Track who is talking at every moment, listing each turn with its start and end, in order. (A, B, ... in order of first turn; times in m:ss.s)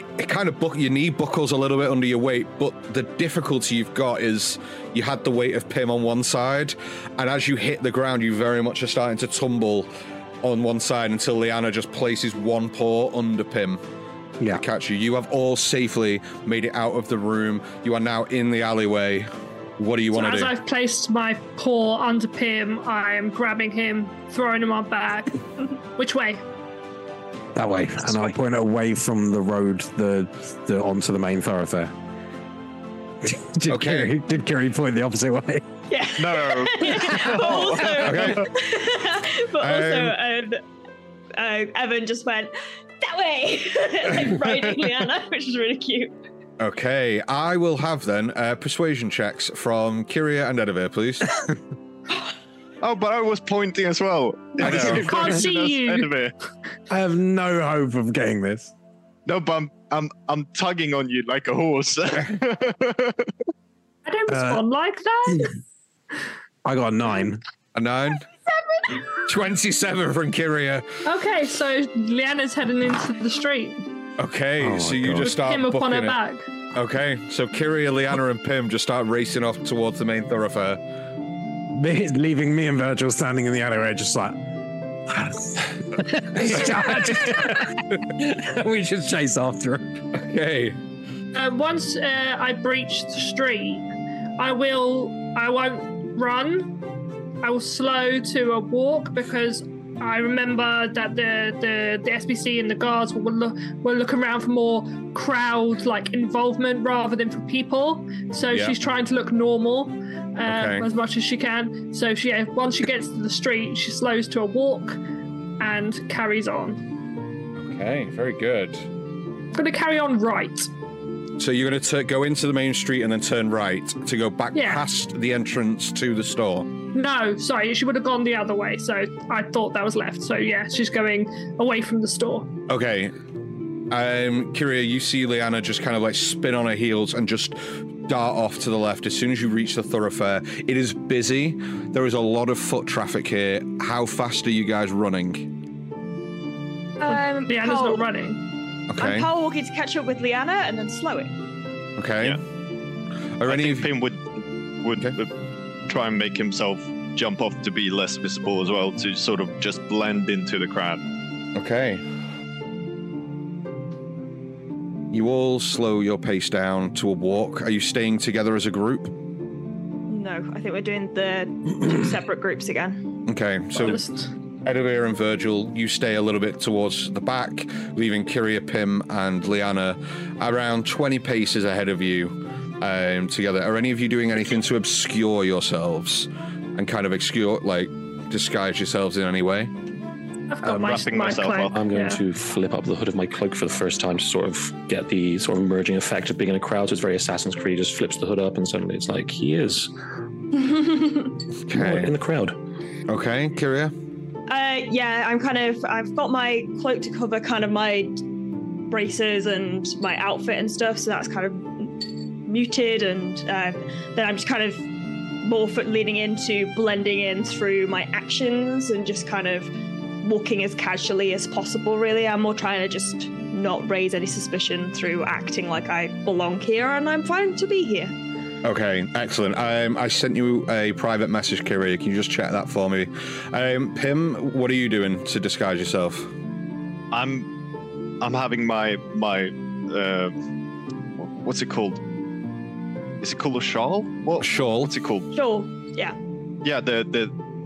0:00.2-0:09.9 A
0:10.4-0:13.8 A
0:14.5-0:20.5 A
0:20.1-0:26.4 B
0:27.5-0:31.9 C
0:33.2-0:35.6 C
0:33.7-0:34.1 A
0:35.9-0:40.6 D
0:36.2-0:38.5 E
0:37.9-0:38.5 A
0:39.6-0:40.2 A
0:41.4-0:46.1 D
0:46.6-0:51.3 A
0:52.8-0:56.3 E
0:54.6-0:55.0 A
0:54.6-0:56.1 B
0:54.6-0:55.3 C
0:56.9-0:58.7 C
0:59.2-1:03.3 E
1:04.0-1:05.6 B
1:04.3-1:04.6 C
1:06.6-1:07.4 C
1:07.7-1:08.2 A
1:09.1-1:11.0 A
1:11.0-1:13.8 B
1:14.2-1:16.2 A
1:14.6-1:15.3 C
1:15.2-1:16.5 B
1:16.7-1:20.8 A
1:21.7-1:24.4 C
1:25.1-1:29.9 C
1:30.1-1:30.8 A
1:31.3-1:33.8 B
1:34.4-1:36.7 B
1:37.4-1:55.0 B
1:48.5-1:48.8 A
1:50.5-1:50.9 A
1:55.6-1:56.8 B
1:57.6-1:58.9 A
1:59.5-2:00.7 B
2:01.4-2:06.7 A
2:04.5-2:04.8 B
2:06.9-2:12.5 B
2:12.7-2:13.1 A
2:13.9-2:25.5 A
2:27.0-2:28.1 D
2:27.0-2:28.4 B
2:28.9-2:29.3 A
2:29.0-2:31.3 D
2:32.0-2:32.4 A
2:33.4-2:33.9 A
2:33.5-2:35.3 E
2:35.9-2:41.0 E
2:41.5-2:42.0 A
2:45.1-2:49.1 A
2:50.1-2:53.0 D
2:53.2-2:54.0 A
2:53.8-2:54.3 B
2:54.6-3:09.7 A
3:10.5-3:12.2 B
3:10.7-3:11.7 E
3:11.7-3:19.9 F
3:20.5-3:21.4 D
3:21.7-3:22.1 A
3:21.7-3:22.6 F
3:23.0-3:23.9 A
3:24.5-3:28.2 D
3:28.9-3:34.8 D
3:35.4-3:39.7 D
3:40.2-3:48.1 D
3:48.6-3:56.3 A
3:57.1-3:57.5 E
3:58.2-4:00.4 E
4:01.2-4:02.0 E
4:03.2-4:05.3 E
4:04.4-4:04.9 A
4:05.3-4:06.2 D
4:06.6-4:07.3 E